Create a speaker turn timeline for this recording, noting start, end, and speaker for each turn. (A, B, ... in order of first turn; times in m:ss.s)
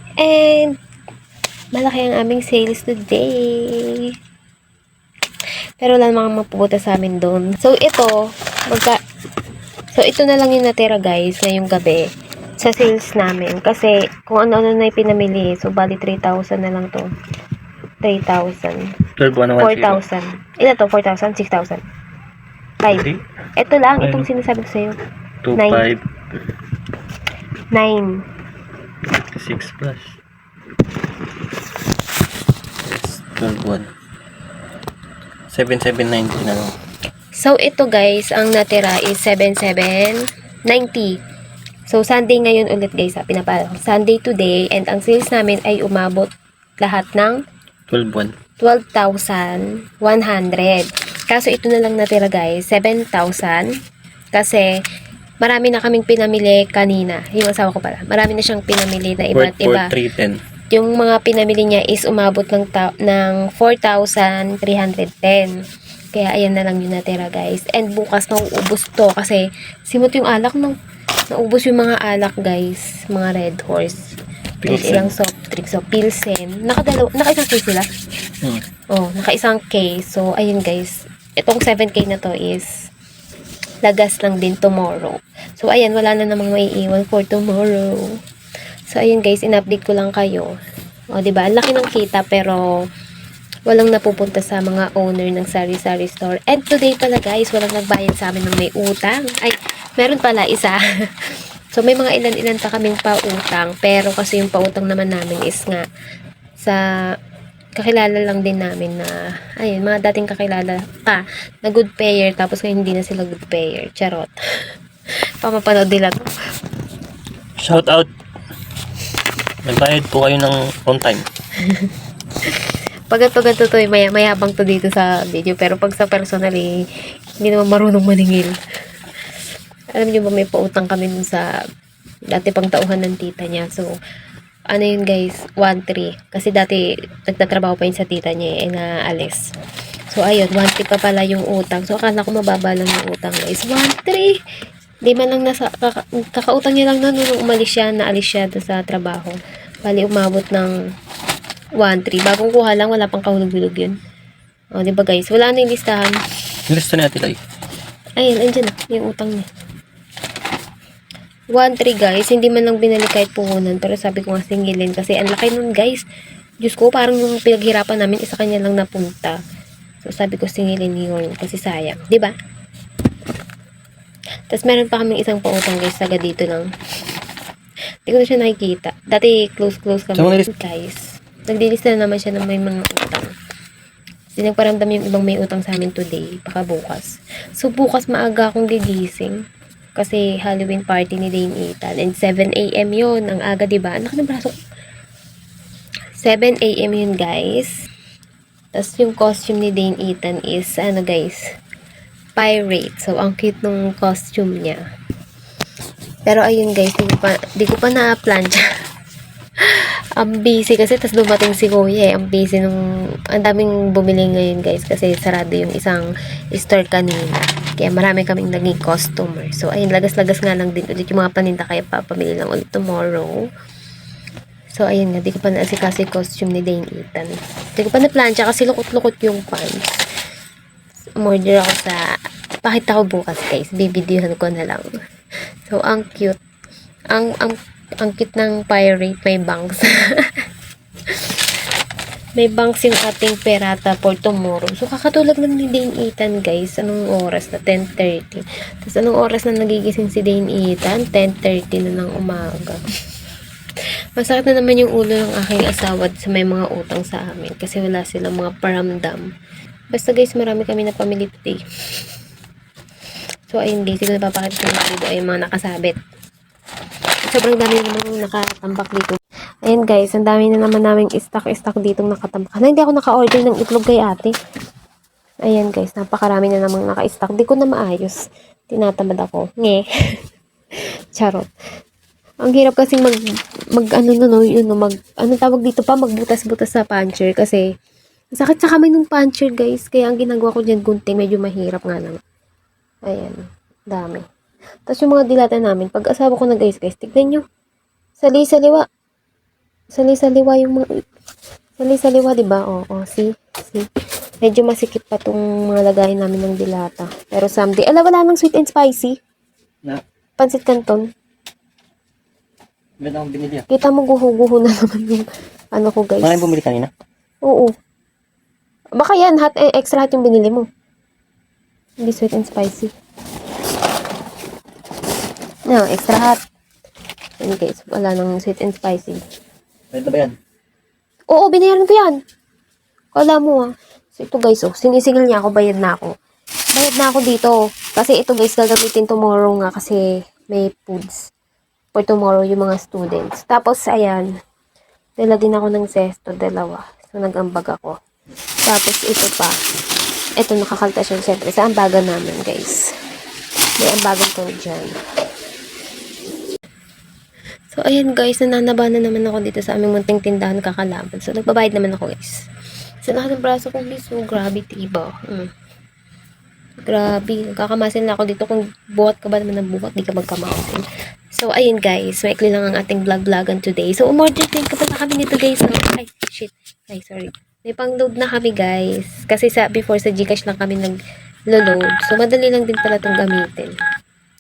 0:00.2-0:00.8 A
0:01.8-0:04.1 A
0:05.8-0:09.0 A
0:09.9-0:12.0 A
0:12.6-0:17.1 A
0:18.0-0:18.9 A
0:19.2-0:20.0 B
0:19.6-0:21.8 A
0:22.8-0:25.0 A
0:22.9-0:23.2 B
0:24.0-0:24.3 B
0:25.4-0:26.0 B
0:25.6-0:25.9 A
0:27.7-0:28.2 A
0:29.4-0:30.2 B
0:32.8-0:33.9 B
0:35.5-0:36.7 B
0:37.3-0:41.2 A
0:41.9-0:46.3 A
0:46.8-0:47.4 A
0:47.9-0:48.3 B
0:48.6-0:53.7 A
0:54.3-0:54.7 A
0:55.4-0:59.9 A
0:59.3-1:00.4 B
1:00.7-1:05.5 A
1:06.2-1:10.8 A
1:11.3-1:14.0 A
1:14.6-1:15.1 B
1:14.7-1:17.9 A
1:18.9-1:22.7 A
1:23.8-1:28.1 A
1:28.9-1:30.5 A
1:31.1-1:32.6 A
1:33.7-1:45.8 A
1:47.8-1:54.3 A
1:55.4-1:56.3 A
1:57.6-1:58.1 B
1:59.6-2:01.3 B
2:01.6-2:01.9 A
2:02.4-2:06.8 A
2:07.4-2:08.6 A
2:10.0-2:11.5 A
2:12.3-2:13.9 A
2:14.7-2:19.4 A
2:20.1-2:24.4 A
2:25.1-2:30.7 A
2:31.8-2:34.0 A
2:34.8-2:36.2 A
2:36.7-2:37.4 B
2:38.2-2:39.4 A
2:41.5-2:46.0 A
2:46.6-2:49.4 A
2:50.0-2:52.3 A
2:54.5-2:56.7 A
2:58.1-3:03.3 A
3:00.2-3:00.5 B
3:04.4-3:09.4 A
3:10.0-3:14.5 A
3:16.2-3:17.7 A
3:18.8-3:21.4 A
3:22.4-3:24.8 A
3:26.3-3:28.6 A
3:29.6-3:32.8 A
3:33.3-3:43.4 A
3:44.8-3:50.0 A
3:51.2-3:52.0 A
3:52.6-3:54.9 A
3:55.7-3:56.4 A
3:57.1-4:00.4 A
4:01.1-4:01.4 A
4:02.4-4:12.8 A
4:14.2-4:19.2 A
4:19.9-4:21.6 A
4:23.5-4:26.0 A
4:27.3-4:34.3 A
4:35.5-4:38.2 A
4:38.7-4:39.8 A
4:41.2-4:41.5 A
4:42.4-4:43.2 A
4:43.8-4:47.7 A
4:48.4-4:52.2 A
4:53.1-4:54.2 A
4:54.9-4:57.4 A
4:58.2-4:58.8 A
4:59.9-5:00.9 A
5:01.8-5:03.9 A
5:04.4-5:09.2 A
5:10.4-5:11.1 A
5:13.0-5:13.7 B
5:13.7-5:16.5 A
5:16.2-5:16.9 B
5:17.4-5:17.7 A
5:19.0-5:20.7 A
5:22.0-5:22.9 A
5:25.7-5:26.4 A
5:27.4-5:29.2 A
5:29.9-5:30.3 B
5:31.3-5:32.2 A
5:33.1-5:36.1 A
5:36.8-5:41.2 A
5:42.0-5:44.3 A
5:45.2-5:48.0 A
5:48.7-5:49.6 A
5:50.4-5:52.9 A
5:53.8-5:55.0 A
5:57.7-6:02.4 A
6:03.0-6:05.5 A
6:06.8-6:10.8 A
6:11.3-6:21.0 A
6:21.5-6:23.8 A